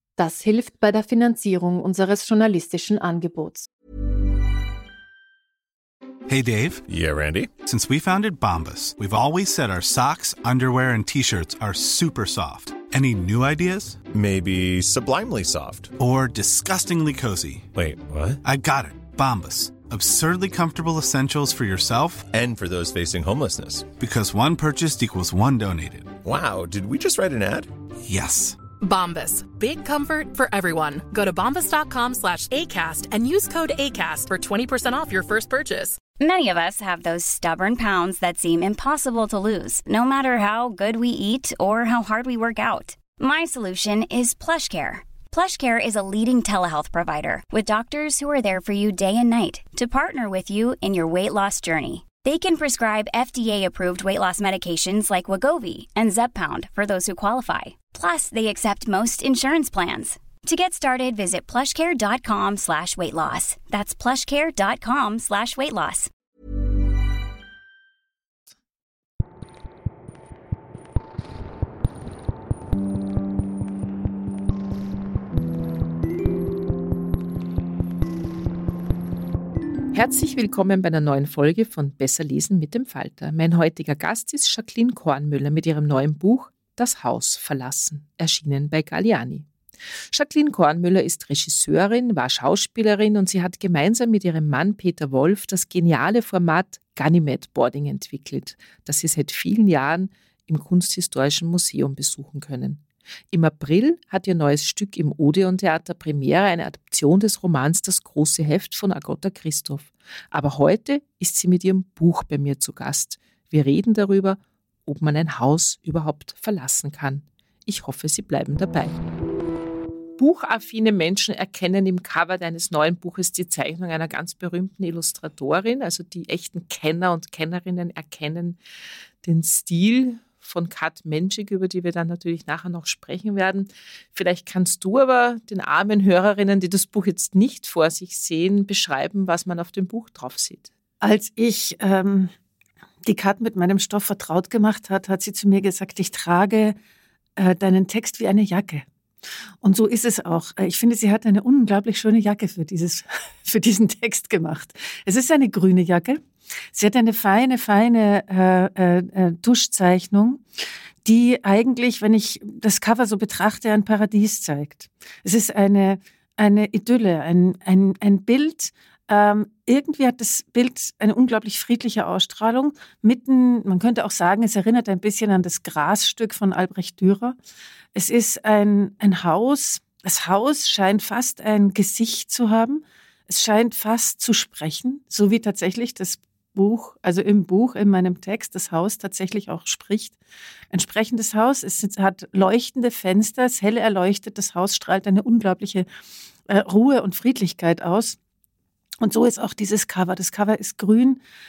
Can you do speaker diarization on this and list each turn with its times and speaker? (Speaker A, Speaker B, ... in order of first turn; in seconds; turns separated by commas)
Speaker A: 0.2-3.7, Speaker B: 6.3-6.8, Speaker C: 6.9-7.5, Speaker B: 7.6-14.0, Speaker C: 14.1-15.9, Speaker B: 16.0-17.7, Speaker C: 17.7-18.4, Speaker B: 18.4-22.2, Speaker C: 22.3-23.9, Speaker B: 24.0-26.1, Speaker C: 26.2-27.7, Speaker B: 28.0-28.6, Speaker D: 28.8-36.0, Speaker E: 36.2-66.1, Speaker F: 79.9-89.5, Speaker F: 90.1-119.0, Speaker F: 120.2-128.6, Speaker F: 129.2-140.7, Speaker G: 141.0-142.3, Speaker G: 143.1-146.8, Speaker G: 147.4-148.8, Speaker G: 149.6-156.2, Speaker G: 156.7-160.4, Speaker G: 161.0-177.3, Speaker G: 177.9-190.2, Speaker G: 190.7-195.8, Speaker G: 196.5-198.2, Speaker G: 199.0-201.2